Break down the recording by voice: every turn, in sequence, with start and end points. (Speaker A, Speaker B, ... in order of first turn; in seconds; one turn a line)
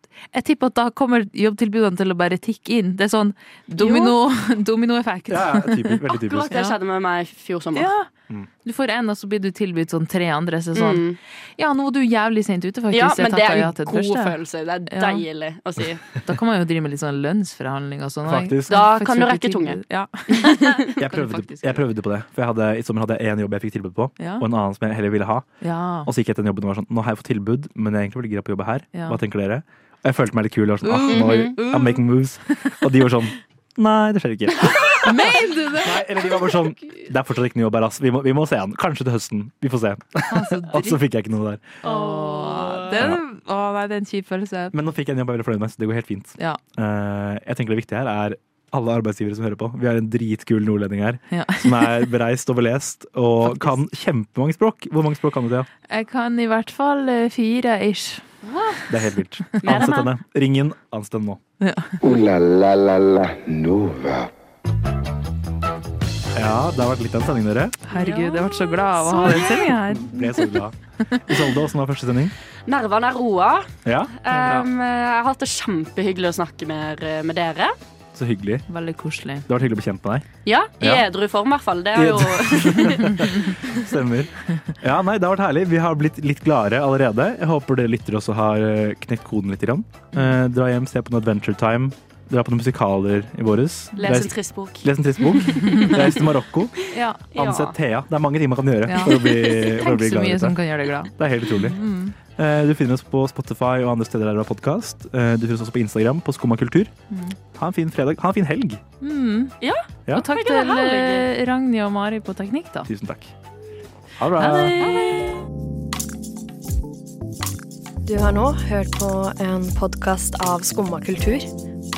Speaker A: 0.3-6.7
Speaker B: 3.8-4.2
Speaker C: 5.3-6.5
Speaker B: 6.1-7.9
Speaker A: 7.7-8.1
Speaker A: 8.6-11.0
Speaker B: 10.7-11.2
Speaker A: 11.6-14.3
Speaker B: 12.9-16.1
Speaker A: 14.9-15.2
Speaker A: 16.2-21.8
Speaker C: 18.2-18.7
Speaker B: 18.7-20.9
Speaker C: 21.0-25.5
Speaker A: 24.2-24.4
Speaker A: 25.6-26.1
Speaker C: 26.0-41.7
Speaker A: 28.9-29.2
Speaker A: 30.8-32.0
Speaker B: 31.1-31.5
Speaker A: 34.6-37.0
Speaker A: 40.3-41.0
Speaker A: 41.8-44.7
Speaker B: 41.8-43.0
Speaker C: 44.7-55.7
Speaker A: 51.3-52.1
Speaker A: 53.5-53.7
Speaker A: 55.9-58.2
Speaker B: 58.4-58.9
Speaker C: 58.9-61.4
Speaker B: 59.6-60.1
Speaker A: 61.6-62.0
Speaker D: 62.0-64.3
Speaker C: 66.3-67.8
Speaker A: 67.9-70.5
Speaker B: 67.9-69.6
Speaker C: 69.5-72.3
Speaker B: 72.7-77.7
Speaker C: 73.8-74.1
Speaker A: 74.3-74.6
Speaker C: 78.1-78.7
Speaker A: 78.7-79.5
Speaker C: 79.5-80.2
Speaker B: 80.5-83.1
Speaker C: 80.8-81.0
Speaker C: 81.9-101.8
Speaker B: 94.0-96.0
Speaker A: 95.5-95.9
Speaker A: 96.9-97.2
Speaker B: 97.2-97.7
Speaker A: 98.8-102.2
Speaker C: 102.3-106.9
Speaker A: 107.1-107.3
Speaker C: 107.5-108.8
Speaker A: 109.0-109.5
Speaker B: 109.6-111.3
Speaker A: 110.1-112.9
Speaker C: 112.9-113.3
Speaker C: 114.2-114.8
Speaker A: 114.3-115.3
Speaker B: 114.7-115.4
Speaker E: 118.0-121.5